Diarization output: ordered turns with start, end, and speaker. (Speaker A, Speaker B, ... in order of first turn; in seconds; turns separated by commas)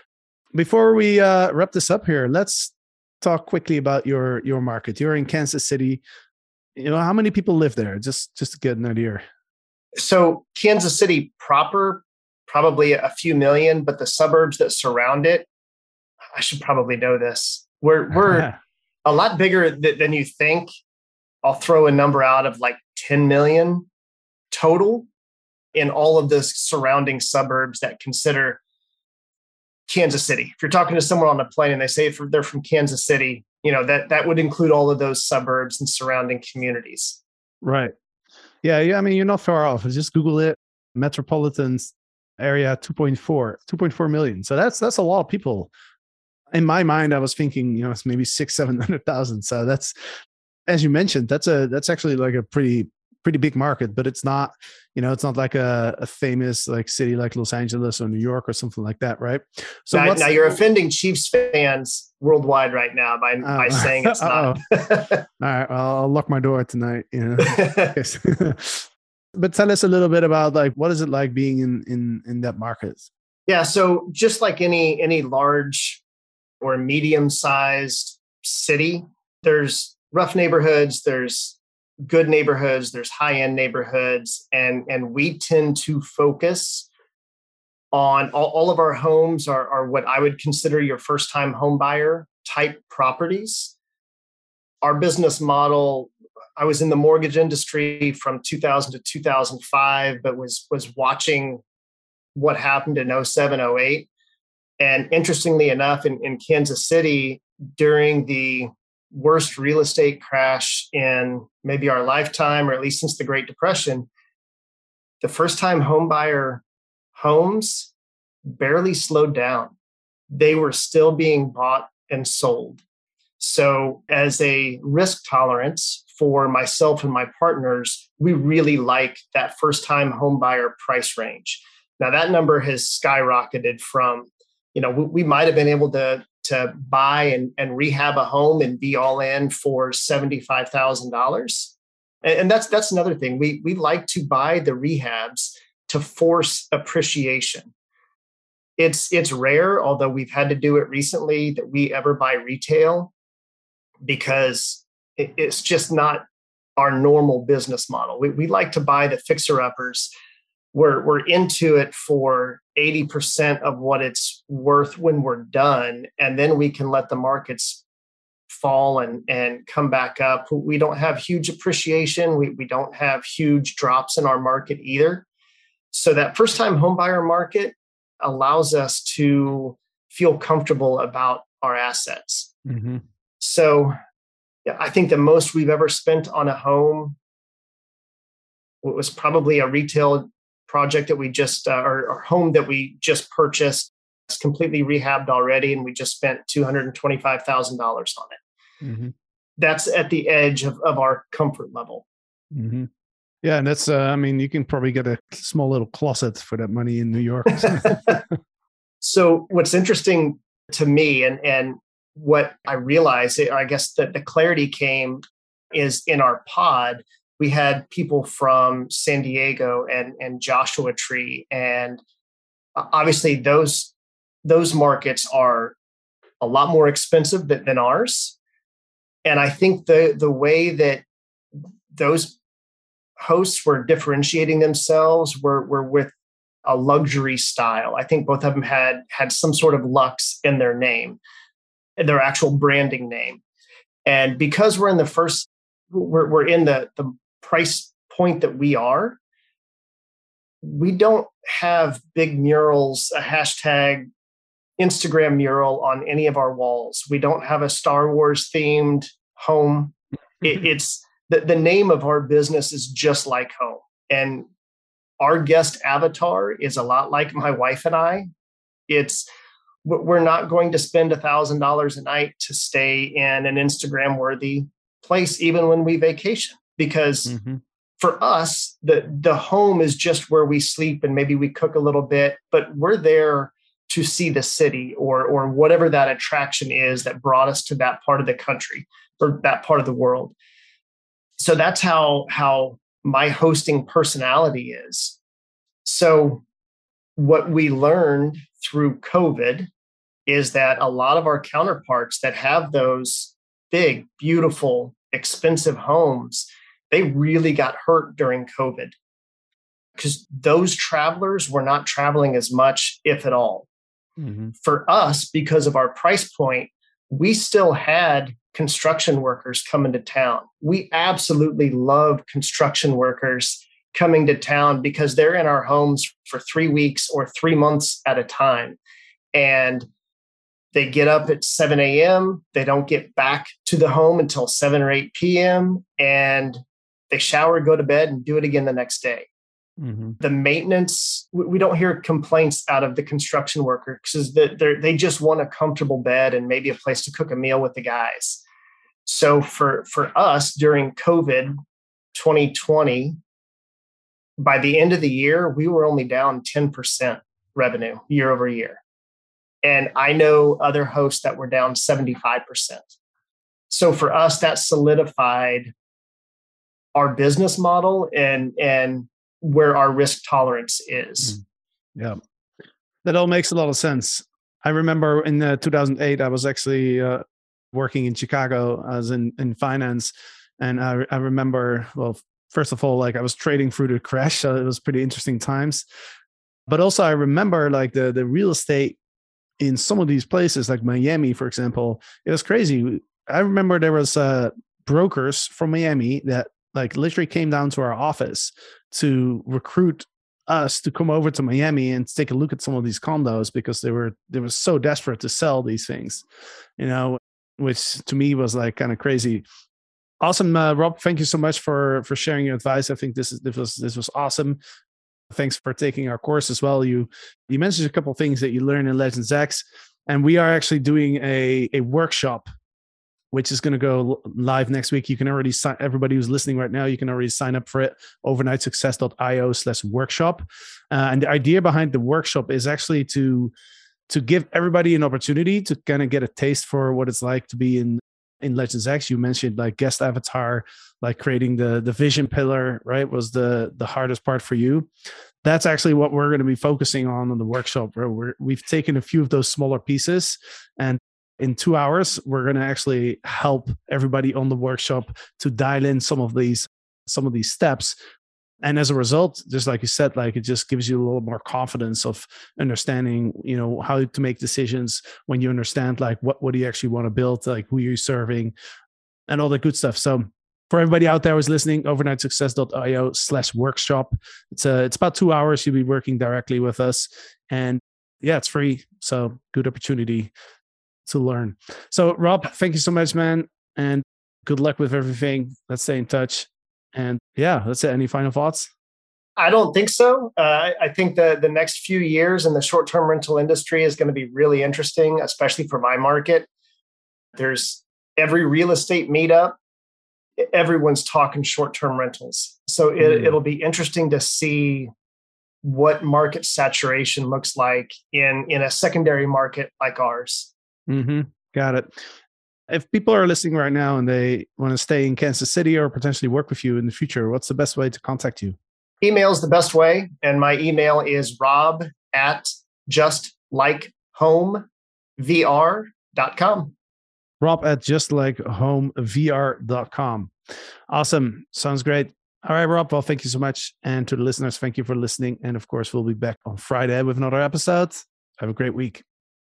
Speaker A: 0.5-6.0, Speaker A: 6.8-9.2, Speaker B: 9.9-15.5, Speaker B: 16.3-18.5, Speaker B: 19.0-20.7, Speaker B: 21.4-23.9, Speaker B: 24.5-25.1, Speaker B: 25.7-28.6, Speaker B: 29.9-37.2, Speaker A: 37.6-37.9, Speaker A: 38.6-45.7, Speaker A: 46.5-49.9, Speaker A: 50.7-60.3, Speaker B: 59.9-65.2, Speaker A: 63.4-73.1, Speaker B: 67.4-68.0, Speaker B: 73.5-76.0, Speaker B: 76.6-86.9, Speaker B: 87.9-93.7, Speaker B: 94.8-101.6, Speaker B: 102.3-104.1, Speaker B: 104.8-114.1, Speaker B: 115.2-116.6, Speaker B: 117.1-117.9, Speaker B: 118.5-119.7, Speaker B: 120.3-122.8, Speaker B: 123.4-141.7, Speaker B: 142.2-147.7, Speaker B: 148.8-153.1, Speaker B: 154.0-156.2, Speaker B: 156.8-160.1, Speaker B: 160.7-167.8, Speaker B: 168.5-175.2, Speaker B: 175.9-182.5, Speaker A: 182.7-183.0, Speaker B: 183.4-183.9, Speaker B: 184.6-187.2, Speaker B: 188.8-198.4, Speaker A: 198.8-199.1, Speaker B: 199.6-202.0, Speaker A: 202.5-202.9, Speaker A: 203.4-208.2, Speaker B: 207.6-208.2, Speaker B: 209.0-222.0, Speaker B: 222.8-223.9, Speaker B: 224.4-225.8, Speaker B: 226.4-228.3, Speaker B: 229.2-231.0, Speaker B: 231.9-232.4, Speaker B: 233.2-236.1, Speaker B: 236.6-241.2, Speaker B: 242.0-243.4, Speaker B: 244.0-249.2, Speaker B: 250.6-254.1, Speaker B: 254.8-264.5, Speaker B: 265.2-268.3, Speaker B: 268.9-269.3, Speaker B: 269.8-277.3, Speaker A: 277.3-277.6, Speaker B: 278.0-290.3, Speaker B: 291.4-295.2, Speaker B: 295.8-296.4, Speaker B: 297.2-299.7, Speaker B: 300.3-308.9, Speaker B: 309.9-313.7, Speaker A: 314.2-314.5, Speaker B: 314.6-328.8, Speaker B: 329.3-329.9, Speaker B: 330.7-339.3, Speaker A: 339.8-340.1, Speaker B: 340.2-348.4, Speaker B: 349.1-351.5, Speaker B: 352.1-353.2, Speaker B: 354.4-358.8, Speaker B: 359.6-362.9, Speaker B: 363.7-365.7, Speaker B: 366.9-371.4, Speaker A: 373.0-385.8, Speaker A: 386.7-389.0, Speaker A: 389.6-406.2, Speaker A: 406.8-409.4, Speaker A: 410.2-414.6, Speaker A: 415.3-422.4, Speaker A: 423.3-433.5, Speaker A: 434.1-444.9, Speaker A: 445.4-457.9, Speaker A: 458.6-468.5, Speaker A: 469.3-480.3, Speaker A: 481.1-488.7, Speaker B: 489.4-496.5, Speaker B: 497.3-499.6, Speaker B: 500.4-504.9, Speaker A: 503.0-503.3, Speaker B: 505.6-510.5, Speaker A: 510.9-512.0, Speaker A: 512.7-518.6, Speaker B: 519.0-524.7, Speaker B: 525.2-526.7, Speaker A: 527.4-530.3, Speaker A: 530.9-539.0